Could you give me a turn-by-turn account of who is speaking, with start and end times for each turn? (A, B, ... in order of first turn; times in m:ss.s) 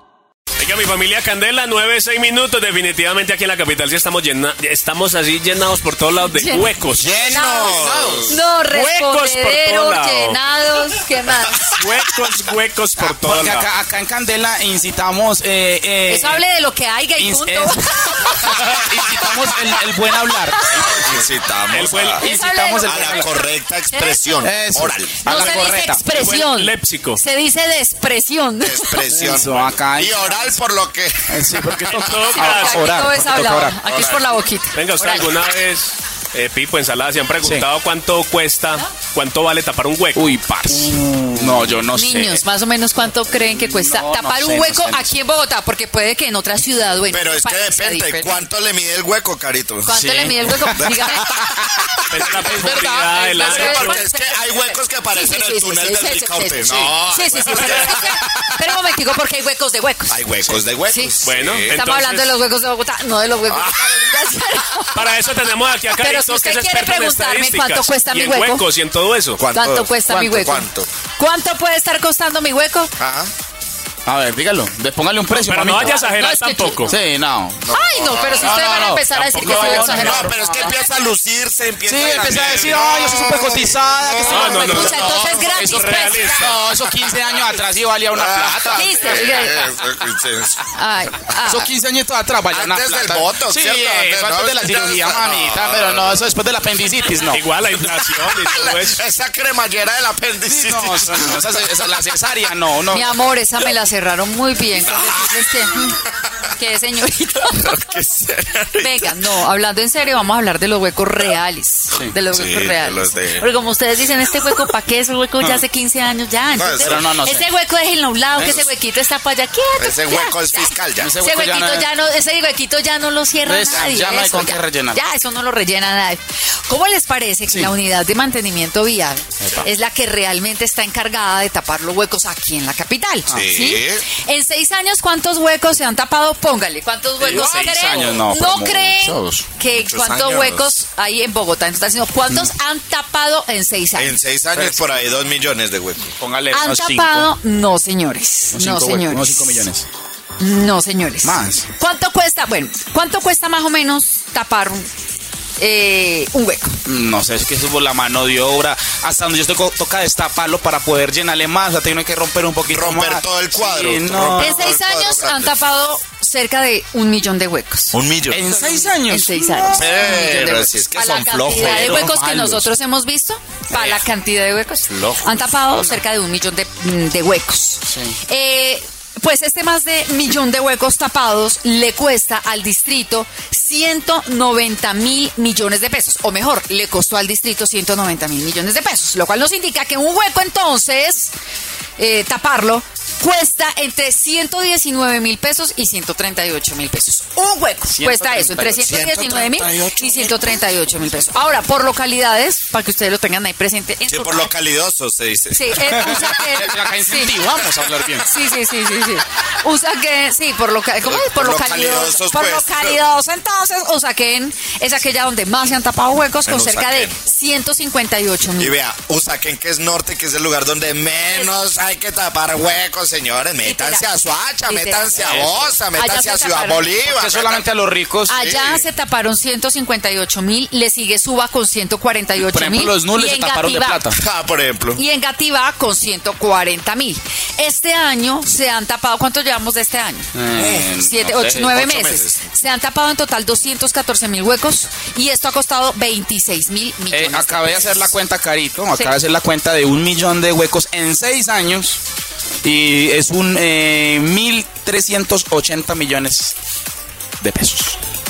0:00.6-0:07.2 A
0:06.2-0:06.7 B
0:07.0-0:08.4 C
0:07.2-0:11.8 B
0:07.8-0:08.2 D
0:08.7-0:10.4 A
0:11.7-0:13.7 A
0:13.0-0:16.4 D
0:16.1-0:18.7 B
0:17.2-0:17.8 D
0:18.4-0:21.1 D
0:20.9-0:22.2 C
0:21.7-0:22.2 A
0:22.2-0:23.3 D
0:22.2-0:24.3 B
0:22.8-0:25.7 C
0:24.4-0:26.0 D
0:25.2-0:29.0 B
0:26.1-0:27.2 A
0:28.6-0:32.2 C
0:29.0-0:30.6 D
0:31.3-0:33.8 D
0:31.9-0:32.9 A
0:32.3-0:35.3 B
0:33.9-0:34.4 C
0:34.7-0:40.3 A
0:37.4-0:37.7 D
0:40.2-0:42.4 D
0:41.9-0:48.5 B
0:43.3-0:45.1 D
0:47.1-0:50.0 C
0:49.9-0:51.4 B
0:49.9-0:50.9 D
0:50.7-0:58.7 C
0:52.1-0:54.0 A
0:52.4-0:53.2 D
0:52.5-1:00.2 B
0:56.7-0:57.0 D
0:57.6-0:57.9 A
1:00.1-1:01.8 C
1:00.9-1:05.2 B
1:01.2-1:02.3 A
1:03.5-1:04.3 C
1:04.9-1:09.4 A
1:06.0-1:08.7 B
1:09.4-1:10.9 C
1:09.5-1:12.9 B
1:13.0-1:13.3 C
1:14.1-1:16.0 D
1:15.3-1:17.0 A
1:15.8-1:17.0 B
1:16.9-1:17.6 D
1:17.6-1:19.0 C
1:17.7-1:20.8 B
1:18.4-1:20.2 D
1:19.1-1:20.2 A
1:19.7-1:25.5 C
1:21.8-1:29.3 D
1:24.2-1:26.6 B
1:24.3-1:24.9 A
1:25.6-1:26.5 A
1:26.7-1:27.0 C
1:28.1-1:30.6 C
1:28.7-1:29.7 B
1:30.7-1:31.7 B
1:31.5-1:37.5 D
1:32.5-1:36.2 C
1:37.3-1:39.0 A
1:37.6-1:41.8 C
1:40.5-1:43.2 D
1:42.9-1:46.0 B
1:44.8-1:45.9 C
1:46.5-1:47.8 B
1:47.5-1:49.3 C
1:48.8-2:24.2 B
1:52.3-1:53.5 C
1:56.5-1:57.1 C
1:56.8-1:57.5 D
1:58.4-1:58.7 C
1:59.8-2:01.1 C
2:01.0-2:01.9 D
2:03.4-2:05.0 D
2:13.3-2:14.0 C
2:17.2-2:19.5 D
2:19.6-2:20.7 C
2:24.0-2:26.1 C
2:24.6-2:24.8 D
2:26.2-2:27.3 D
2:26.5-2:29.7 B
2:28.5-2:29.9 D
2:30.4-2:34.9 B
2:31.2-2:31.6 D
2:35.6-2:36.8 B
2:36.8-2:44.6 D
2:42.7-2:45.7 C
2:44.4-2:48.0 B
2:47.9-2:48.4 C
2:48.3-2:49.8 D
2:48.5-3:11.3 B
2:49.7-2:52.0 C
2:51.2-2:52.7 D
2:53.7-2:54.1 D
2:54.9-2:56.0 D
2:57.9-2:58.2 D
3:12.0-3:24.5 B
3:17.9-3:20.3 D
3:18.8-3:19.8 C
3:24.1-3:25.8 C
3:25.5-3:27.4 B
3:25.8-3:28.3 D
3:28.3-3:38.8 B
3:31.0-3:33.0 C
3:36.5-3:37.2 C
3:38.6-3:47.6 C
3:43.6-3:46.8 B
3:45.2-3:45.8 D
3:47.0-3:48.4 D
3:48.3-3:54.0 B
3:48.4-3:48.9 C
3:52.4-3:54.2 D
3:54.2-3:55.0 C
3:55.0-4:00.3 B
4:00.4-4:01.7 D
4:00.6-4:00.9 C
4:01.0-4:08.1 B
4:01.6-4:02.5 C
4:07.1-4:12.0 D
4:12.6-4:16.6 D
4:17.4-4:18.0 D